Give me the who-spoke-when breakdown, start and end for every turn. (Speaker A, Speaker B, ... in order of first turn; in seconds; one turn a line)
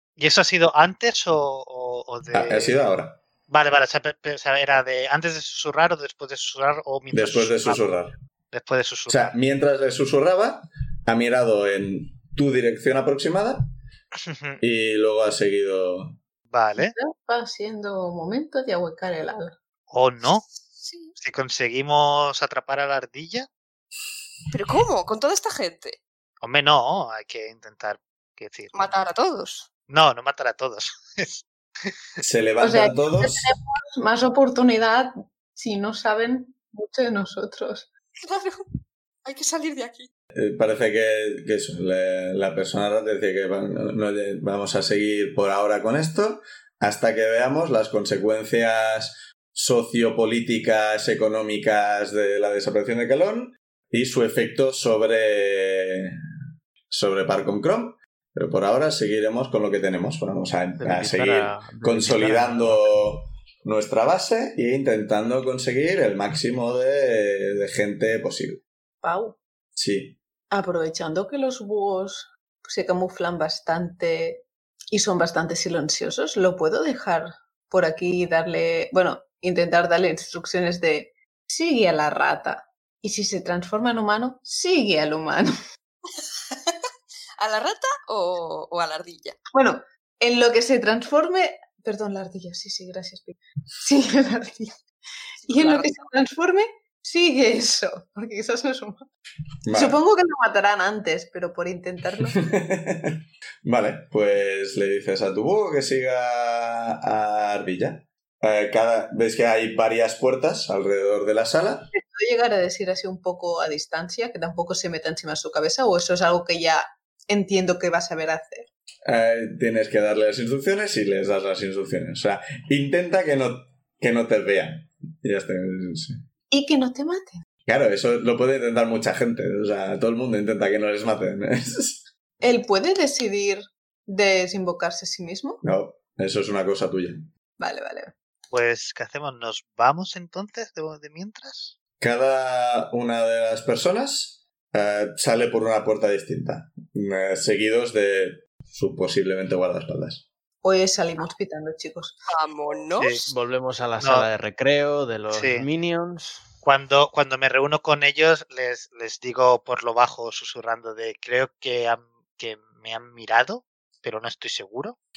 Speaker A: 0.2-2.9
Speaker B: 2.3-3.2
Speaker A: 3.5-7.8
Speaker B: 7.1-8.1
Speaker A: 8.5-9.3
Speaker B: 9.1-13.6
Speaker A: 14.2-14.6
Speaker B: 14.6-16.2
Speaker A: 16.5-16.9
Speaker C: 16.8-19.6
Speaker A: 19.9-20.5
Speaker D: 20.8-21.1
Speaker A: 21.2-23.5
Speaker D: 24.5-26.0
Speaker A: 26.4-28.9
Speaker D: 28.7-29.7
Speaker A: 29.9-31.9
Speaker B: 32.2-33.5
Speaker C: 32.6-37.9
Speaker D: 38.2-38.6
Speaker D: 39.2-40.1
Speaker B: 40.3-56.1
Speaker B: 56.9-68.6
Speaker E: 60.8-63.1
Speaker C: 69.0-69.4
Speaker B: 69.7-70.2
Speaker C: 70.5-85.5
Speaker D: 86.5-86.8
Speaker D: 87.4-89.4
Speaker C: 89.5-94.8
Speaker C: 95.5-99.0
Speaker D: 95.5-96.1
Speaker B: 99.6-100.0
Speaker C: 99.7-102.4
Speaker B: 102.4-111.9
Speaker C: 111.9-118.7
Speaker B: 119.0-126.2
Speaker C: 126.5-127.4
Speaker B: 127.7-132.1
Speaker C: 132.4-135.6
Speaker B: 135.6-137.3
Speaker C: 137.6-138.1
Speaker A: 138.5-141.8
Speaker B: 142.0-150.3
Speaker C: 150.6-152.2
Speaker D: 152.3-153.2
Speaker A: 153.0-153.3
Speaker E: 153.3-156.4
Speaker A: 154.0-154.3
Speaker A: 155.3-155.7
Speaker A: 156.6-165.0